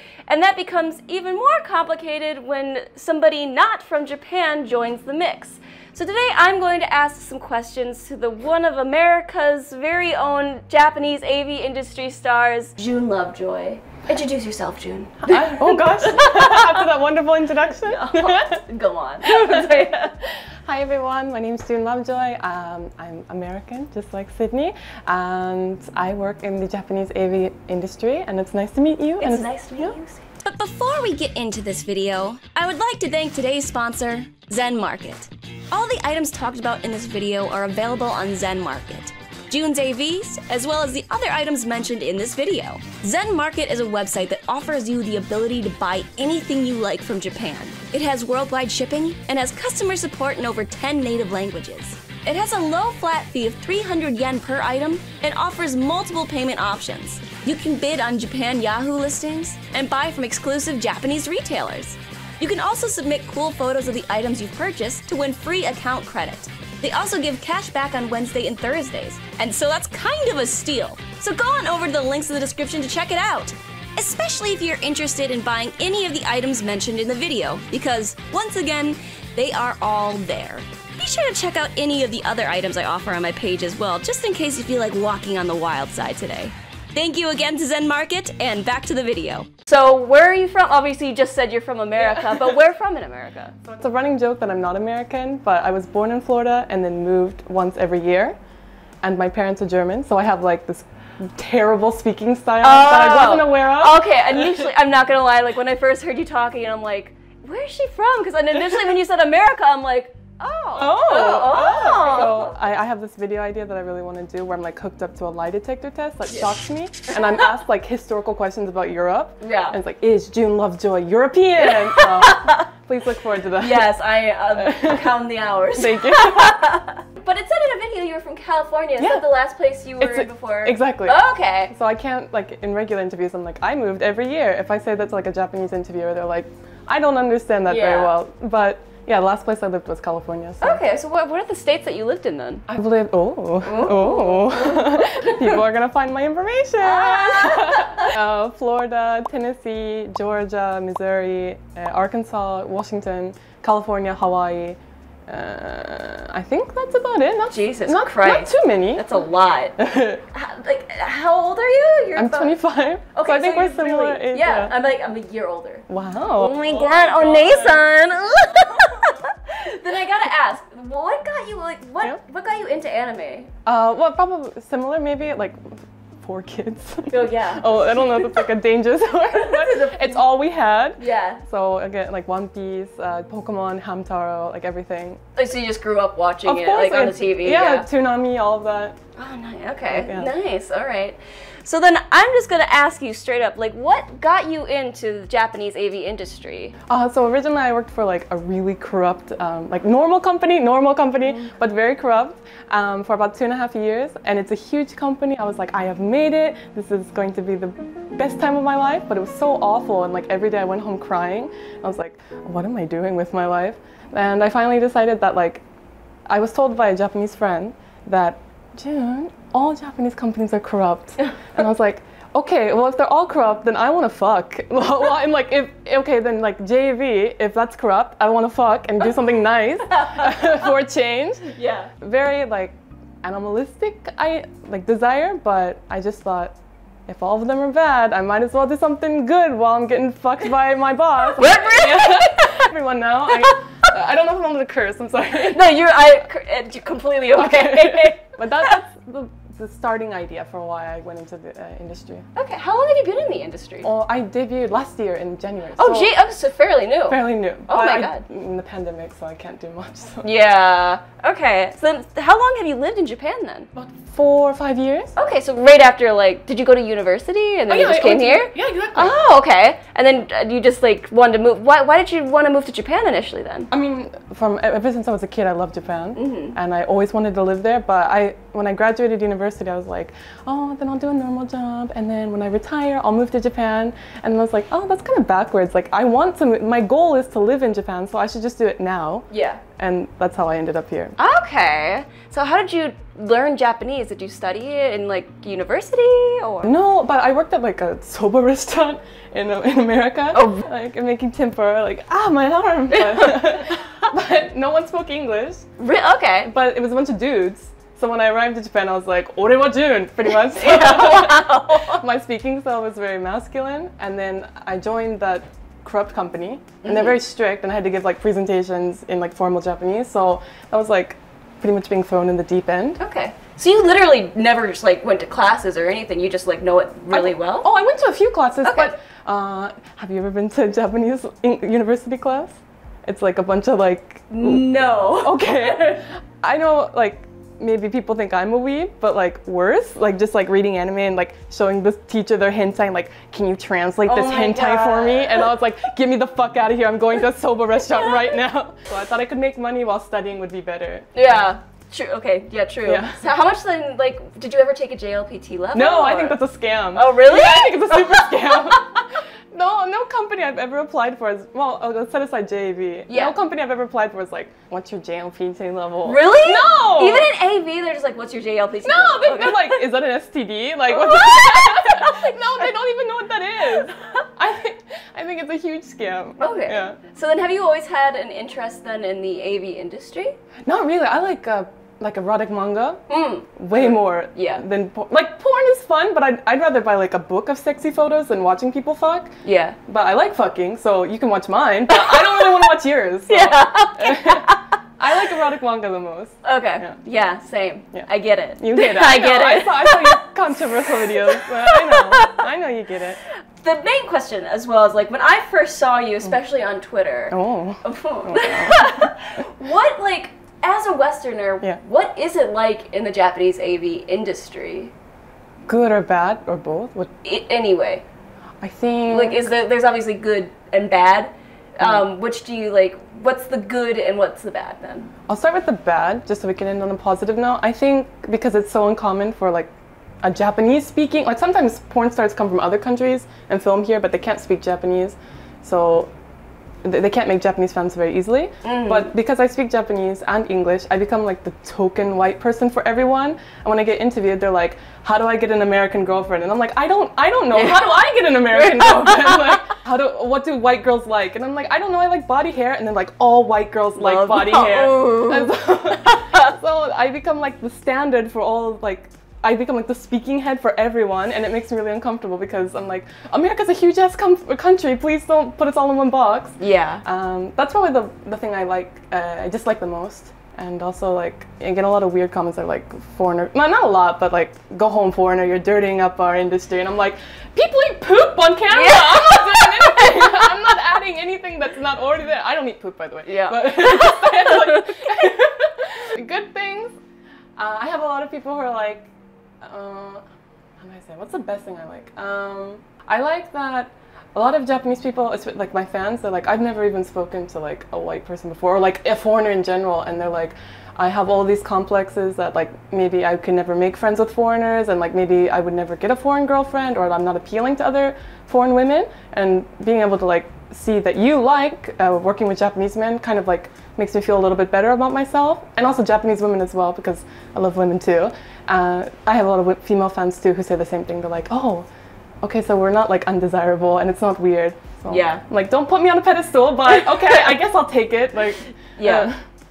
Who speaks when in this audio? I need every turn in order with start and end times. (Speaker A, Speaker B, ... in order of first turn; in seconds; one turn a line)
Speaker A: 0.3-16.8
Speaker B: 15.2-18.6
Speaker A: 17.8-20.1
Speaker B: 19.2-20.0
Speaker B: 20.7-30.0
Speaker A: 29.2-93.5
Speaker B: 92.0-92.5
Speaker B: 93.6-98.3
Speaker B: 99.0-104.7
Speaker A: 102.6-112.5
Speaker B: 110.8-124.0
Speaker A: 116.3-116.6
Speaker A: 119.4-119.8
Speaker A: 121.6-122.7
Speaker A: 123.6-131.7
Speaker B: 124.5-125.2
Speaker B: 125.7-126.6
Speaker B: 129.0-129.3
Speaker B: 130.0-131.2
Speaker B: 131.7-140.8
Speaker A: 137.7-138.2
Speaker A: 140.6-142.7
Speaker B: 142.7-159.1
Speaker A: 143.6-145.6
Speaker A: 146.8-148.1
Speaker A: 157.5-159.8
Speaker B: 159.8-160.2
Speaker A: 160.3-162.6
Speaker B: 162.2-164.8
Speaker A: 163.1-173.5
Speaker B: 165.9-167.9
Speaker B: 173.7-185.2
Speaker A: 177.1-177.8
Speaker A: 179.3-180.2
Speaker A: 181.0-181.4
Speaker A: 185.4-187.9
Speaker B: 186.4-189.0
Speaker A: 189.2-196.8
Speaker B: 189.9-190.3
Speaker B: 196.9-215.6
Speaker B: 216.3-236.6
Speaker A: 229.9-230.5
Speaker A: 231.6-231.9
Speaker B: 237.1-245.7
Speaker A: 241.3-242.7
Speaker A: 245.5-248.7
Speaker B: 247.3-252.3
Speaker A: 252.3-253.9
Speaker B: 253.8-256.1
Speaker A: 255.8-258.2
Speaker B: 257.1-260.3
Speaker A: 260.2-263.7
Speaker B: 263.8-265.1
Speaker A: 265.2-273.7
Speaker B: 267.7-269.2
Speaker B: 273.7-291.2
Speaker A: 276.2-276.6
Speaker A: 289.3-289.6
Speaker A: 291.2-296.7
Speaker B: 296.6-305.7
Speaker A: 300.3-300.7
Speaker A: 302.9-304.1
Speaker A: 305.8-306.5
Speaker B: 306.4-323.0
Speaker A: 310.4-312.0
Speaker A: 316.8-317.2
Speaker A: 323.0-327.7
Speaker B: 327.1-351.2
Speaker A: 328.6-328.9
Speaker A: 334.3-336.1
Speaker A: 344.1-345.5
Speaker A: 351.1-356.4
Speaker B: 352.9-353.2
Speaker B: 355.7-367.3
Speaker A: 356.9-359.0
Speaker A: 363.1-363.3
Speaker A: 366.0-369.8
Speaker B: 368.8-377.0
Speaker A: 370.9-372.7
Speaker A: 376.4-380.4
Speaker B: 380.7-383.0
Speaker A: 383.1-384.6
Speaker B: 383.6-389.4
Speaker A: 389.4-389.8
Speaker B: 389.9-397.0
Speaker A: 391.9-392.6
Speaker A: 393.3-394.7
Speaker A: 396.4-402.4
Speaker B: 398.6-403.2
Speaker A: 403.6-414.9
Speaker B: 407.3-409.4
Speaker B: 415.7-417.1
Speaker A: 417.2-418.0
Speaker B: 418.6-419.5
Speaker A: 419.1-425.1
Speaker B: 421.8-422.1
Speaker B: 425.3-429.7
Speaker B: 430.2-436.1
Speaker B: 436.8-487.0
Speaker A: 438.6-439.1
Speaker A: 447.5-449.8
Speaker A: 454.0-456.5
Speaker A: 466.6-467.0
Speaker A: 478.7-480.5
Speaker A: 483.3-485.1
Speaker B: 487.6-490.2
Speaker B: 490.8-521.9
Speaker B: 522.4-529.4
Speaker A: 525.1-525.4
Speaker A: 529.0-529.3